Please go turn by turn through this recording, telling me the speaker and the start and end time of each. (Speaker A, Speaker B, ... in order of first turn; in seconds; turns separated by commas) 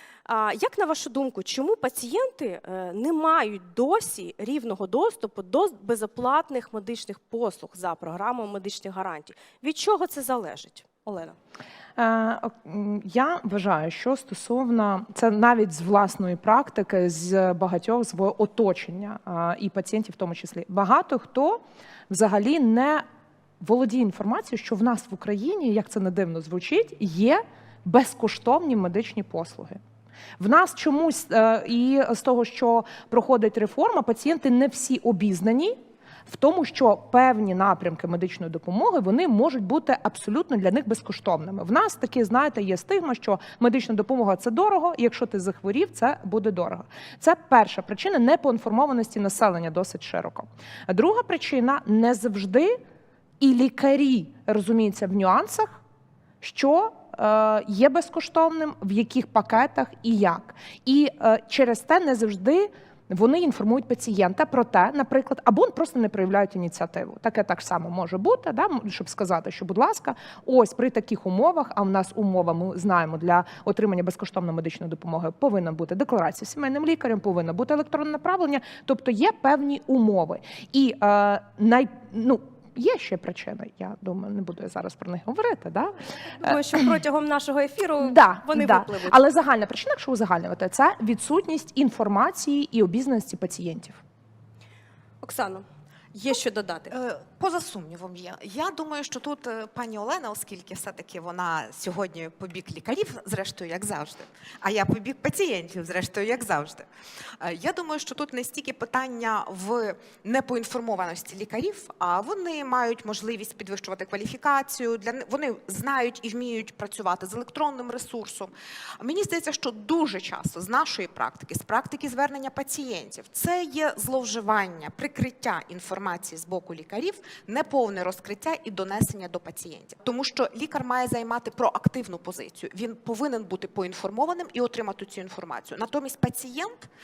Speaker A: 0.2-11.3, Speaker B: 12.0-23.0, Speaker B: 23.6-29.8, Speaker B: 30.4-35.7, Speaker B: 36.2-52.7, Speaker B: 53.4-55.8, Speaker B: 56.4-86.8, Speaker A: 86.2-89.2, Speaker B: 88.0-94.0, Speaker A: 95.2-96.9, Speaker C: 96.9-106.8, Speaker C: 107.4-136.9